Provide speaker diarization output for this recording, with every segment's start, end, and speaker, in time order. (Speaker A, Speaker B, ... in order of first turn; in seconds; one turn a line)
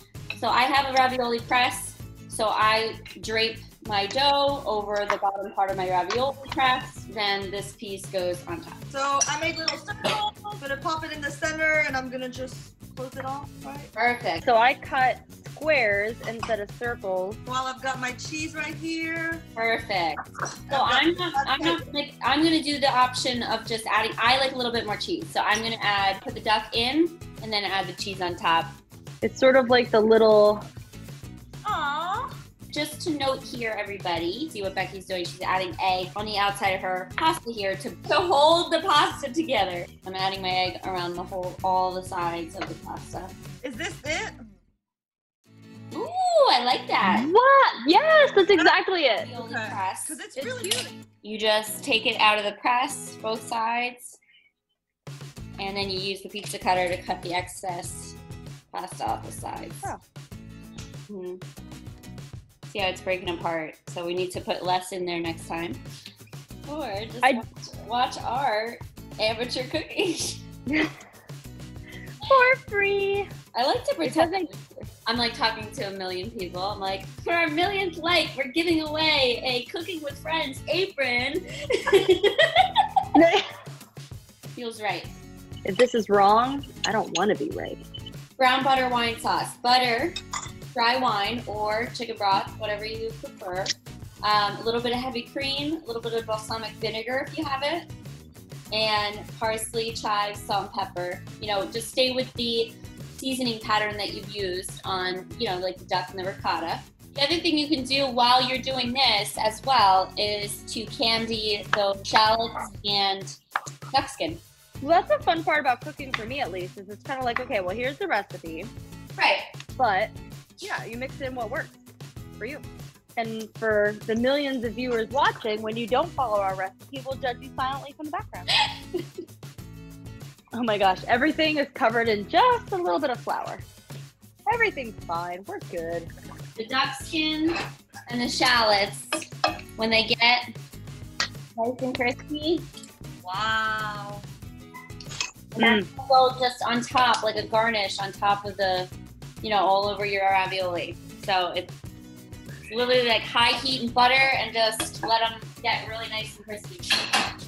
Speaker A: 0.4-8.8
Speaker B: 8.9-13.9
Speaker A: 13.9-14.4
Speaker C: 14.4-17.4
Speaker B: 17.4-19.4
Speaker A: 19.6-28.7
Speaker B: 20.7-21.8
Speaker C: 29.2-30.6
Speaker B: 31.6-32.3
Speaker A: 32.7-43.3
Speaker B: 43.6-44.4
Speaker A: 45.9-47.3
Speaker C: 47.0-49.3
Speaker A: 49.0-50.2
Speaker B: 49.3-51.0
Speaker C: 50.4-50.9
Speaker A: 51.2-54.2
Speaker A: 55.6-58.2
Speaker A: 58.7-59.9
Speaker A: 61.1-61.4
Speaker A: 62.7-65.8
Speaker A: 66.7-70.4
Speaker C: 70.7-71.0
Speaker C: 72.2-73.3
Speaker A: 73.5-82.6
Speaker C: 74.0-74.6
Speaker C: 83.1-83.5
Speaker A: 84.5-85.1
Speaker C: 85.6-87.8
Speaker A: 88.4-90.1
Speaker A: 90.7-97.9
Speaker A: 98.7-113.3
Speaker A: 113.9-114.4
Speaker C: 114.8-118.7
Speaker A: 119.2-119.5
Speaker C: 119.8-121.8
Speaker C: 122.4-122.6
Speaker C: 123.2-128.5
Speaker A: 128.6-129.0
Speaker C: 130.5-133.6
Speaker C: 134.4-136.1
Speaker A: 136.6-137.5
Speaker A: 138.1-139.1
Speaker A: 139.8-140.4
Speaker A: 141.6-142.7
Speaker B: 143.2-144.2
Speaker A: 145.5-148.9
Speaker C: 145.6-145.8
Speaker A: 149.4-151.7
Speaker A: 152.7-156.8